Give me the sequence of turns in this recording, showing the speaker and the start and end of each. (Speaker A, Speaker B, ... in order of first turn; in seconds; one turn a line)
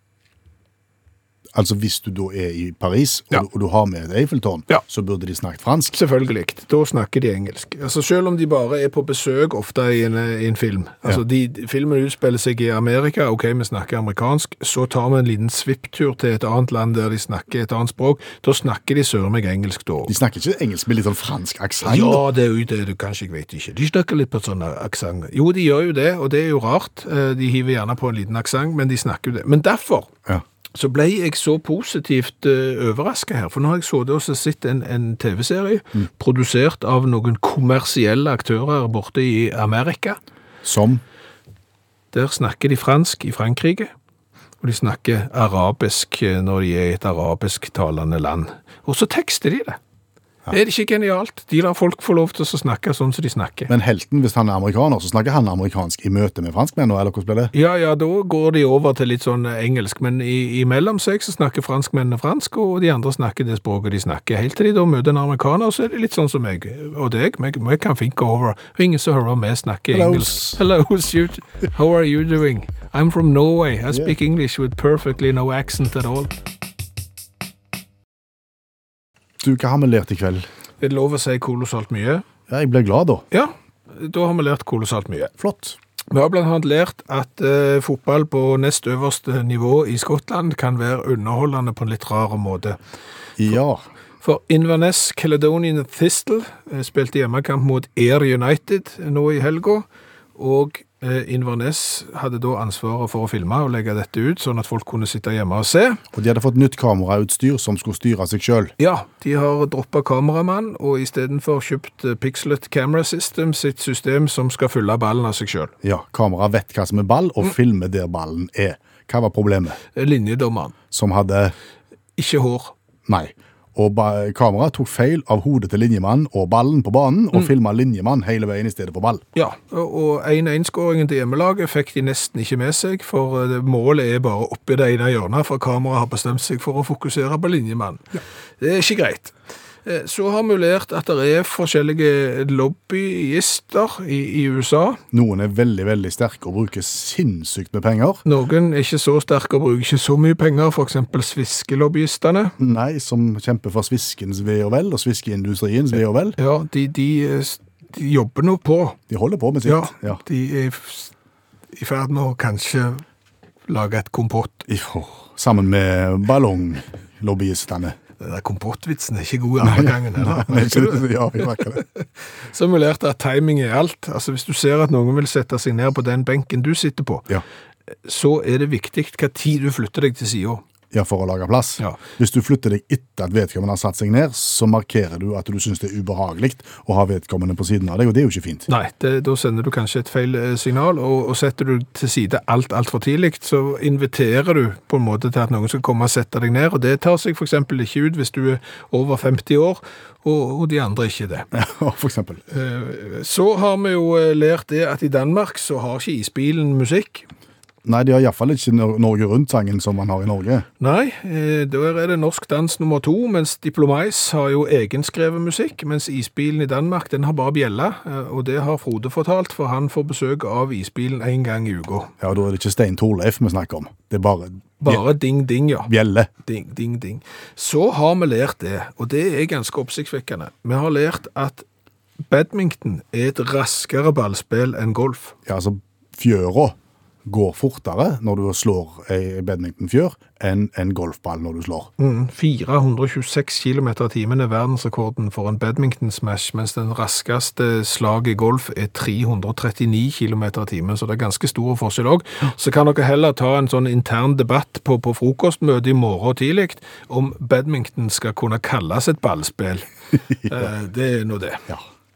Speaker A: 1.5-6.0
Speaker B: 5.9-20.1
Speaker A: 20.1-22.2
Speaker B: 21.8-30.1
Speaker B: 30.7-40.2
Speaker A: 40.6-41.0
Speaker B: 42.1-43.9
Speaker B: 44.6-49.8
Speaker B: 50.5-53.7
Speaker A: 53.7-57.5
Speaker B: 57.5-76.3
Speaker A: 69.9-70.6
Speaker A: 79.4-80.5
Speaker B: 80.8-82.2
Speaker A: 82.5-83.2
Speaker B: 83.3-85.3
Speaker A: 85.4-85.8
Speaker B: 86.1-92.8
Speaker A: 93.4-93.8
Speaker B: 94.2-106.0
Speaker A: 106.1-108.7
Speaker B: 108.8-115.7
Speaker A: 115.8-119.8
Speaker B: 120.0-120.7
Speaker A: 120.9-121.5
Speaker B: 122.2-122.7
Speaker A: 123.1-129.2
Speaker B: 129.3-145.0
Speaker A: 145.1-148.2
Speaker B: 148.2-152.6
Speaker A: 152.6-156.4
Speaker B: 156.4-159.0
Speaker A: 159.1-160.2
Speaker B: 159.6-161.1
Speaker B: 161.7-163.0
Speaker B: 163.7-164.7
Speaker A: 164.7-168.0
Speaker B: 168.2-177.3
Speaker A: 169.6-171.8
Speaker B: 178.0-180.6
Speaker A: 180.9-188.7
Speaker B: 188.7-201.5
Speaker A: 201.5-202.4
Speaker B: 202.5-207.3
Speaker A: 207.8-210.7
Speaker B: 210.8-222.1
Speaker A: 222.2-225.1
Speaker B: 224.8-225.9
Speaker A: 225.8-226.3
Speaker B: 226.4-231.6
Speaker B: 232.3-235.3
Speaker A: 235.4-241.9
Speaker B: 242.0-259.9
Speaker B: 260.4-261.7